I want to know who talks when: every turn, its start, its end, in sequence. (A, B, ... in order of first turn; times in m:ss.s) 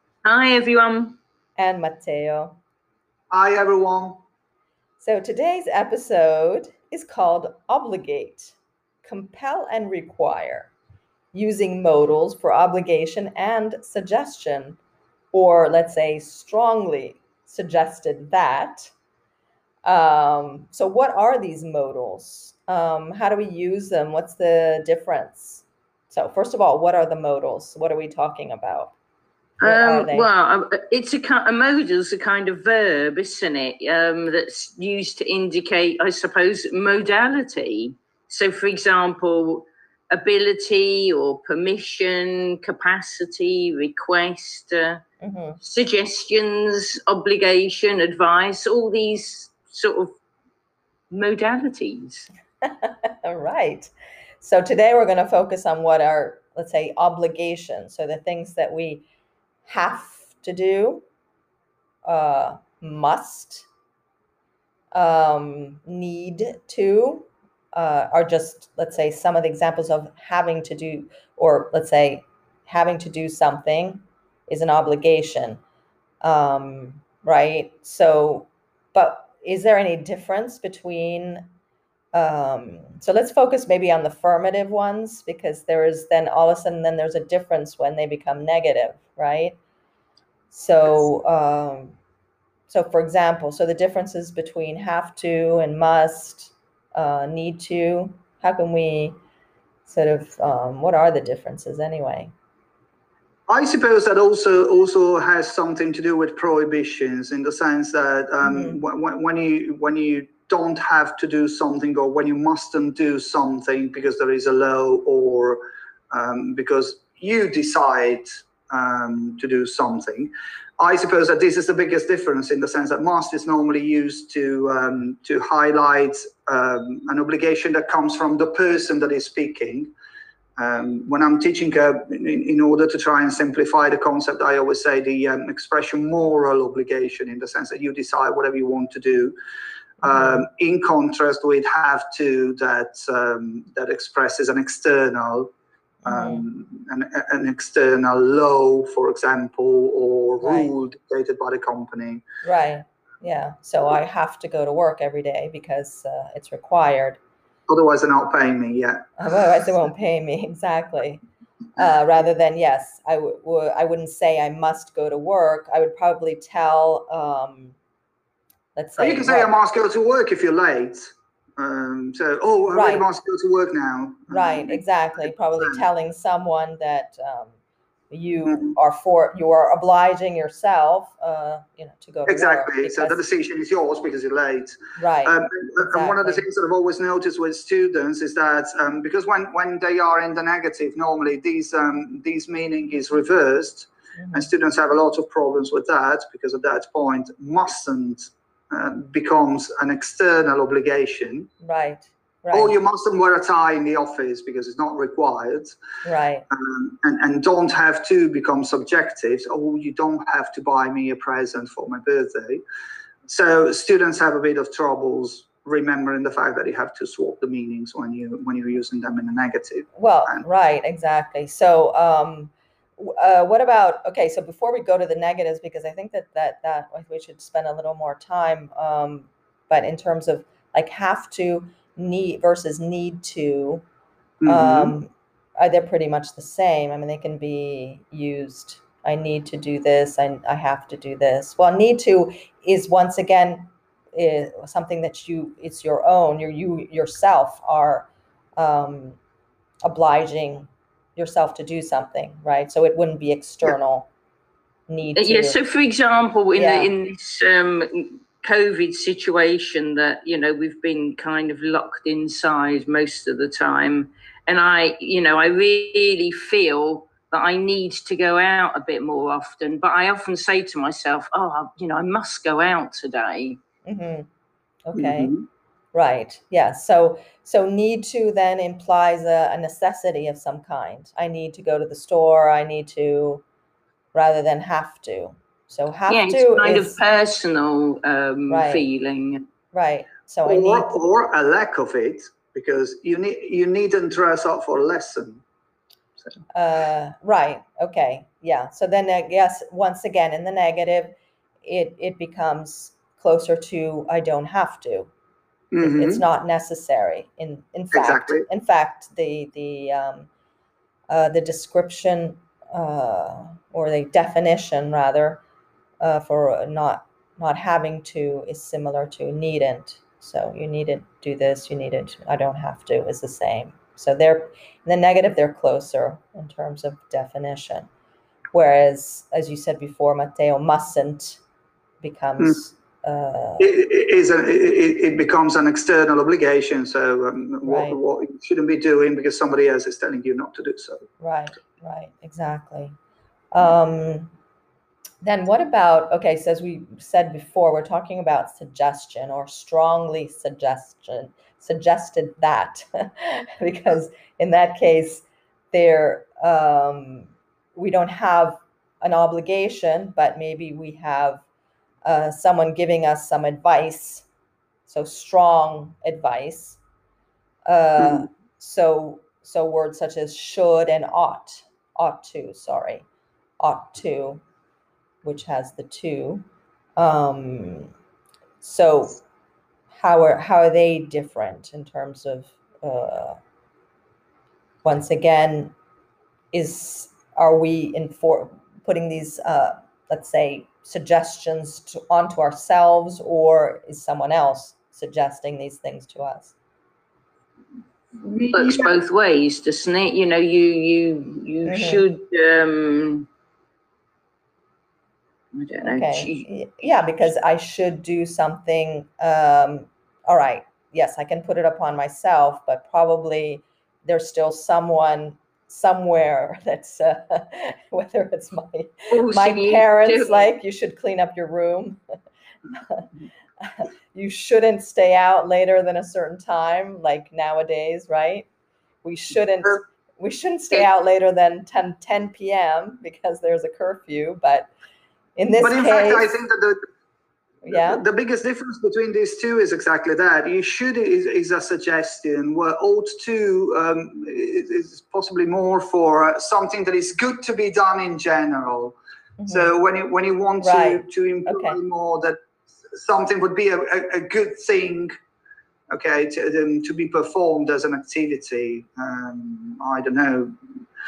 0:00.2-0:01.2 A
0:01.6-0:02.6 B
0:03.3-0:04.2 C
0:05.0-0:10.7 B
0:11.3-0:14.8 B
0:15.3-0:18.9 B
0:19.8-0:29.0 B
0:29.6-0:45.0 A
0:29.6-0:30.3 B
0:45.2-0:45.6 B
0:45.6-0:50.2 A
0:51.1-0:52.3 A
0:52.6-0:59.0 B
0:59.6-1:01.0 B
1:02.0-1:03.7 B
1:04.9-1:15.6 B
1:16.2-1:21.5 B
1:22.1-1:29.6 B
1:30.5-1:32.0 B
1:32.7-1:39.2 B
1:39.9-1:42.3 B
1:43.5-2:09.9 C
1:48.4-1:48.8 B
2:10.6-2:19.4 C
2:20.0-2:20.5 B
2:20.0-2:25.5 C
2:26.0-2:26.4 B
2:26.0-2:32.2 C
2:30.4-2:30.7 B
2:32.4-2:37.2 B
2:37.7-2:39.5 C
2:39.2-2:41.2 B
2:41.8-2:47.8 B
2:48.8-2:49.5 B
2:49.0-2:55.8 C
2:52.7-2:53.1 B
2:54.3-2:57.5 B
2:58.1-3:03.2 B
2:58.5-2:58.8 C
3:02.3-3:21.5 C
3:05.0-3:06.5 B
3:14.2-3:14.5 B
3:21.6-3:22.8 B
3:22.5-3:25.8 C
3:26.0-3:26.4 B
3:26.5-3:32.6 C
3:33.3-3:40.4 C
3:40.0-3:53.8 B
3:54.4-3:55.0 C
3:54.5-4:09.2 B
4:09.8-4:14.1 B
4:14.9-4:15.6 B
4:15.2-4:33.6 A
4:16.6-4:16.9 B
4:33.9-4:34.3 B
4:34.9-4:35.3 B
4:35.0-4:35.5 C
4:35.9-4:43.4 B
4:44.1-4:47.0 B
4:46.1-4:49.4 A
4:48.5-4:48.9 B
4:49.7-4:51.0 B
4:50.4-4:55.4 C
4:56.5-5:05.1 B
5:05.7-5:06.2 C
5:05.8-5:10.3 B
5:07.9-5:08.5 C
5:11.1-5:15.4 B
5:16.0-5:27.9 B
5:28.5-5:31.4 B
5:32.0-5:33.7 B
5:33.6-5:41.1 C
5:37.6-5:38.0 B
5:41.2-5:43.0 B
5:43.5-5:44.3 B
5:45.2-6:01.4 B
6:02.0-6:04.3 B
6:04.9-6:06.8 B
6:07.7-6:13.1 B
6:13.6-6:14.4 B
6:15.2-6:16.4 B
6:17.0-6:17.9 B
6:18.6-6:19.2 B
6:19.9-6:23.4 B
6:24.8-6:25.7 B
6:26.5-6:36.6 B
6:38.2-6:38.9 C
6:38.5-6:43.3 A
6:41.7-6:42.0 B
6:45.6-6:46.5 A
6:45.8-7:02.0 B
6:59.1-7:00.5 A
7:02.8-7:03.1 B
7:03.6-7:08.5 B
7:09.0-7:14.7 B
7:15.4-7:16.4 B
7:15.6-7:16.8 C
7:17.6-7:18.0 B
7:17.7-7:29.0 C
7:29.4-7:29.7 B
7:29.5-7:32.4 C
7:30.6-7:31.8 B
7:32.9-7:35.1 C
7:35.9-7:40.5 C